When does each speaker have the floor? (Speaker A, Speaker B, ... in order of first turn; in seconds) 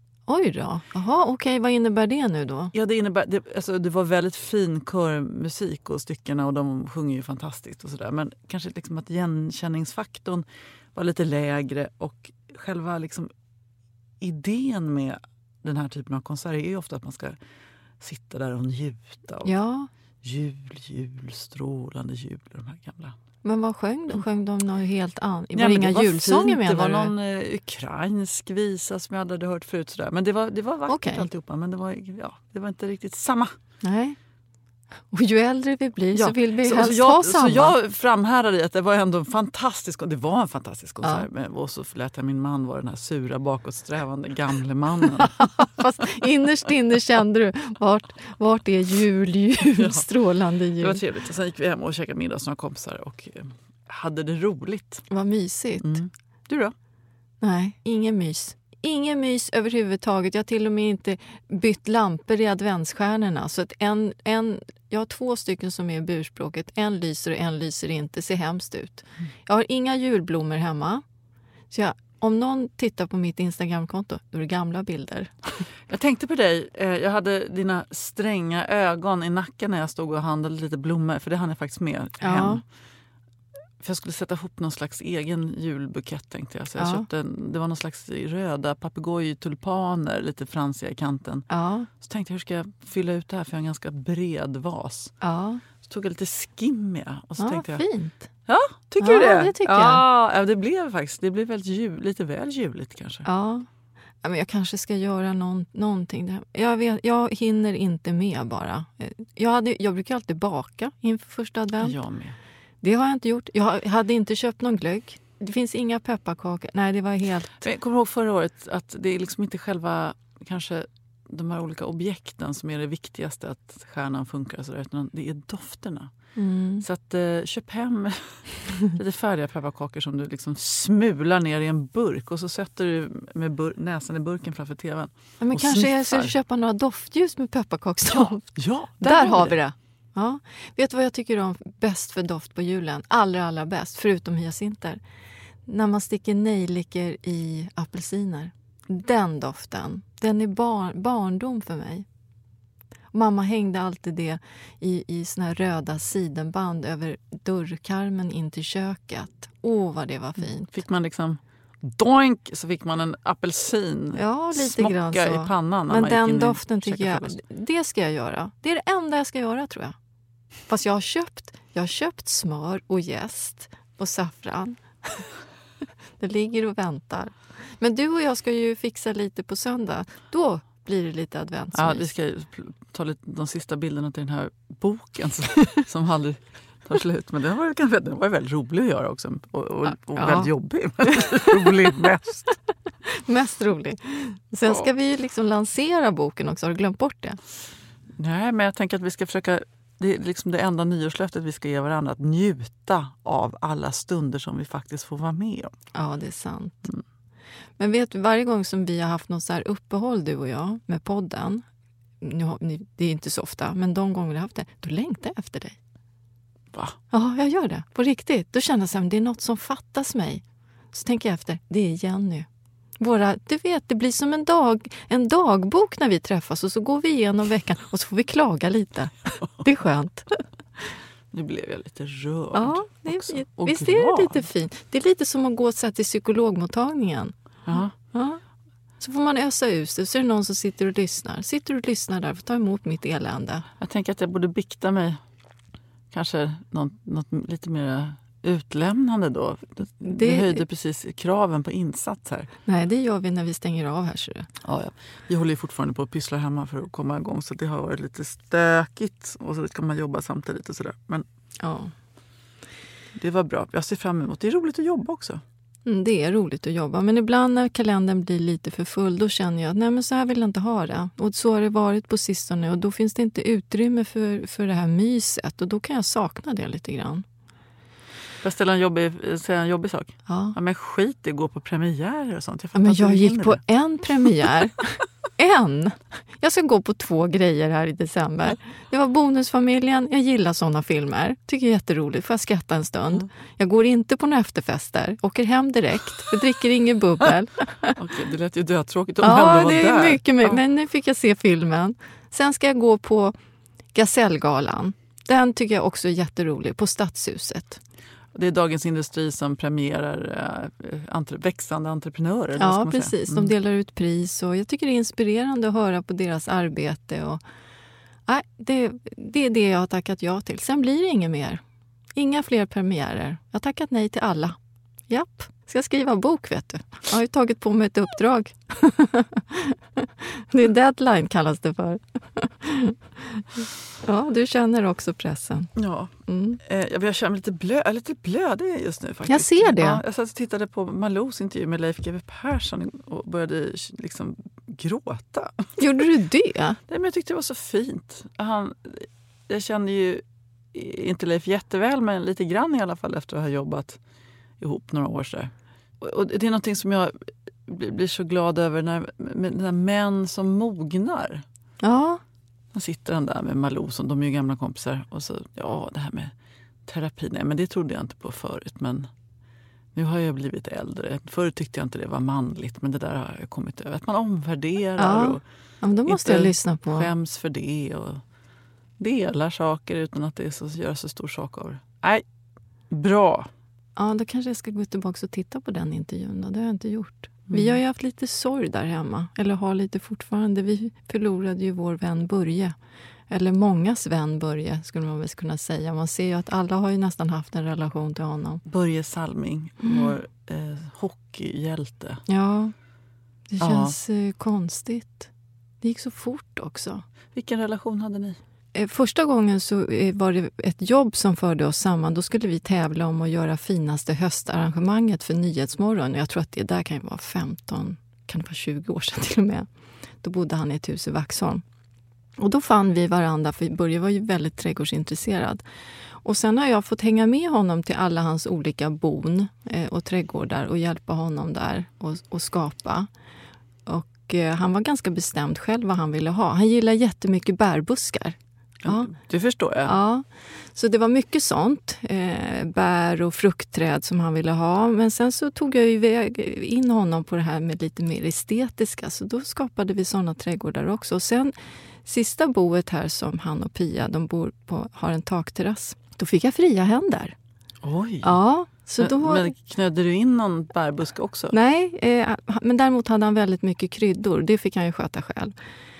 Speaker A: 0.3-2.7, 19.4-19.9, 23.4-27.1, 30.9-31.2, 33.8-34.2, 35.1-37.8, 45.2-51.0, 55.1-56.0, 57.4-71.0, 71.7-75.6, 82.2-82.6, 86.8-87.0, 91.5-91.9, 95.2-95.6, 97.4-98.3, 99.0-100.0, 103.2-103.7, 104.2-111.9, 112.8-117.6, 126.3-126.8, 135.4-138.5, 139.0-145.0, 145.7-152.1, 153.1-160.7, 164.1-169.9, 170.7-175.3, 176.2-182.1, 190.1-190.5, 191.1-191.7, 193.2-197.4, 205.9-206.8, 207.8-211.6, 212.2-215.8, 217.1-222.5, 223.0-230.3, 232.5-237.3, 238.0-238.4, 239.0-243.7, 250.0-250.6, 252.7-254.5, 261.6-261.9, 265.9-277.2, 280.3-280.5, 282.7-297.9, 299.2-303.4, 303.9-307.8, 312.6-317.4, 318.3-321.6, 322.1-324.6, 325.1-333.4, 334.0-335.7, 336.3-336.6, 339.3-340.0, 345.8-346.8, 361.8-362.2, 375.0-377.1, 384.0-392.8, 393.3-398.6, 399.8-400.1, 402.3-402.7, 403.5-405.3, 405.8-407.0, 408.7-419.7, 420.2-421.6, 422.4-425.6, 426.2-433.1, 433.9-439.1, 439.9-451.5, 452.0-457.3, 458.2-459.5, 461.5-465.5
Speaker B: 2.7-13.3, 14.2-17.4, 18.0-19.5, 20.2-23.1, 25.5-33.5, 36.1-45.4, 49.8-50.1, 50.8-55.0, 55.8-56.7, 75.9-82.6, 83.8-91.5, 92.0-95.1, 95.8-97.8, 98.5-103.2, 111.8-112.4, 117.6-126.1, 126.8-136.3, 138.1-139.6, 160.4-167.4, 181.7-192.5, 198.2-205.7, 231.3-234.4, 237.7-237.9, 243.8-245.2, 246.1-252.5, 254.6-261.2, 263.1-265.4, 278.4-283.6, 298.0-300.6, 308.3-313.5, 335.8-336.1, 336.6-345.7, 346.9-354.0, 354.6-357.1, 357.7-361.4, 362.7-366.3, 366.9-369.1, 369.9-375.4, 376.1-378.2, 379.0-382.2, 382.9-383.5, 387.5-387.8, 398.6-402.2, 403.6-403.9, 407.3-408.4, 438.8-439.9, 457.8-458.4, 459.0-461.5